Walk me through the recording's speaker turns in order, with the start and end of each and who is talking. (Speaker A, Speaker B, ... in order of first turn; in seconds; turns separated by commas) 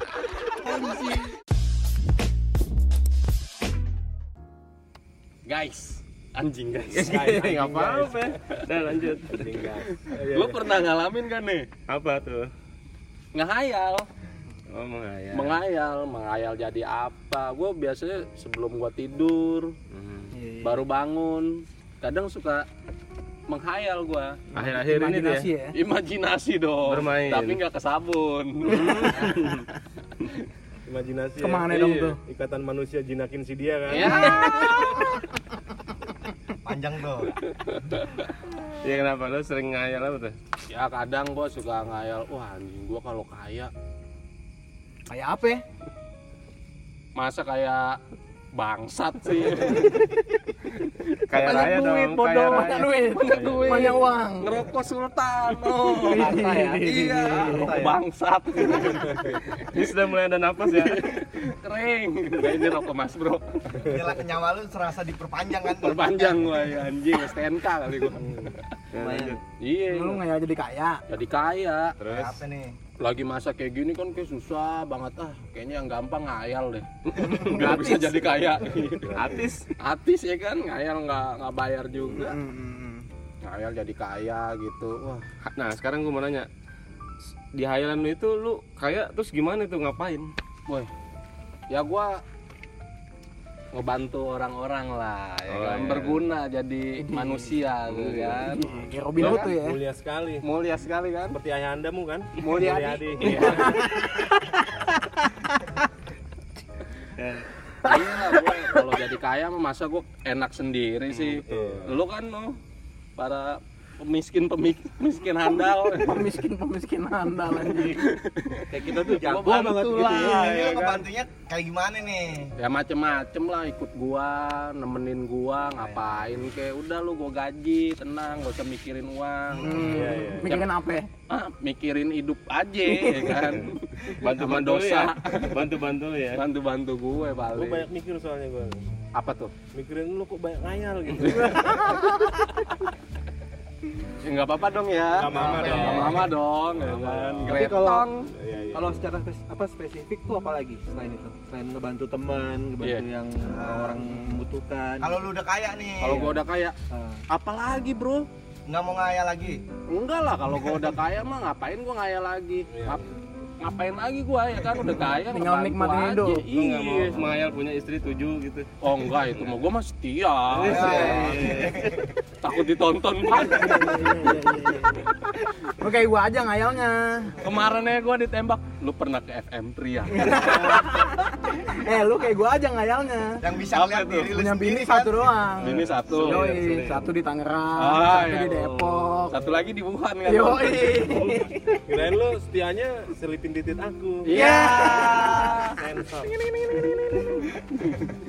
Speaker A: 0.6-1.1, Speaker B: 0.6-1.2, Speaker B: 5.5-7.1, Speaker C: 6.9-9.7, Speaker D: 7.0-8.3, Speaker D: 9.3-10.6, Speaker B: 10.1-11.7, Speaker C: 11.9-12.5, Speaker B: 13.3-14.1, Speaker C: 14.7-15.6, Speaker B: 15.3-19.7, Speaker C: 19.9-20.3, Speaker B: 20.6-22.7, Speaker B: 23.5-24.4, Speaker C: 24.5-25.5, Speaker A: 24.5-25.8, Speaker B: 25.7-29.4, Speaker C: 26.9-27.6, Speaker C: 28.6-29.6, Speaker A: 28.9-29.3, Speaker D: 30.9-34.5, Speaker A: 31.4-32.2, Speaker B: 33.9-35.0, Speaker A: 34.1-35.2, Speaker E: 36.6-37.3, Speaker C: 38.8-40.4, Speaker B: 40.7-43.7, Speaker A: 45.1-45.6, Speaker B: 47.1-48.0, Speaker B: 48.5-50.2, Speaker B: 51.2-59.8, Speaker C: 51.3-53.9, Speaker A: 51.4-54.6, Speaker D: 53.4-53.9, Speaker A: 55.9-57.7, Speaker E: 56.8-58.0, Speaker C: 59.6-61.2, Speaker B: 60.7-63.9, Speaker E: 63.8-66.4, Speaker B: 65.7-68.7, Speaker C: 68.9-69.4, Speaker E: 69.0-69.3, Speaker B: 69.6-70.2, Speaker A: 69.9-71.0, Speaker B: 71.1-72.0, Speaker C: 72.0-72.4, Speaker E: 72.0-72.8, Speaker B: 73.0-79.1, Speaker C: 77.1-78.5, Speaker A: 77.3-77.8, Speaker D: 78.6-79.4, Speaker C: 79.1-79.7, Speaker B: 79.8-82.4, Speaker A: 82.1-83.0, Speaker B: 83.4-85.2, Speaker C: 85.5-86.5, Speaker C: 87.5-90.3, Speaker B: 91.7-92.2, Speaker B: 93.7-98.8, Speaker C: 95.5-96.3, Speaker C: 97.9-98.5, Speaker D: 98.7-100.5, Speaker A: 98.9-99.8, Speaker B: 100.4-101.4, Speaker D: 101.3-104.0, Speaker B: 102.4-103.8, Speaker A: 103.1-105.6, Speaker C: 103.3-103.5, Speaker A: 107.8-108.4, Speaker B: 107.8-112.6, Speaker C: 111.1-111.8, Speaker D: 111.4-111.9, Speaker B: 113.2-116.3, Speaker A: 115.9-118.0, Speaker B: 117.7-120.5, Speaker F: 118.7-121.0, Speaker E: 120.1-122.5, Speaker B: 122.6-130.7, Speaker E: 129.5-129.8, Speaker A: 129.6-131.1, Speaker D: 129.7-130.6, Speaker B: 131.3-135.6, Speaker C: 134.1-136.4, Speaker B: 136.3-137.8, Speaker D: 137.5-138.8, Speaker B: 139.1-139.5, Speaker D: 139.7-142.1, Speaker B: 141.5-142.0, Speaker B: 144.2-148.3, Speaker D: 145.1-147.6, Speaker E: 145.3-146.2, Speaker F: 147.5-148.1, Speaker D: 148.3-148.9, Speaker F: 148.7-155.2, Speaker B: 152.8-153.1, Speaker E: 153.4-154.0, Speaker E: 155.0-156.3, Speaker B: 156.0-156.7, Speaker F: 156.9-157.2, Speaker B: 157.3-158.3, Speaker E: 158.7-159.6, Speaker B: 159.9-163.1, Speaker D: 162.7-163.0, Speaker B: 163.6-167.3, Speaker A: 165.0-166.5, Speaker C: 166.5-169.5, Speaker B: 168.8-171.5, Speaker C: 170.5-172.1, Speaker E: 170.7-172.1, Speaker B: 172.4-174.3, Speaker A: 173.3-177.3, Speaker F: 173.9-174.7, Speaker B: 177.4-180.8, Speaker A: 180.2-183.4, Speaker E: 183.4-185.5, Speaker C: 183.7-184.3, Speaker A: 184.3-189.5, Speaker B: 185.6-186.6, Speaker C: 185.6-187.0, Speaker B: 187.8-191.2, Speaker A: 190.2-191.8, Speaker D: 191.8-194.5, Speaker B: 194.2-195.8, Speaker A: 194.3-195.8, Speaker E: 194.4-195.6, Speaker D: 195.7-196.3, Speaker A: 196.4-197.5, Speaker B: 196.6-198.1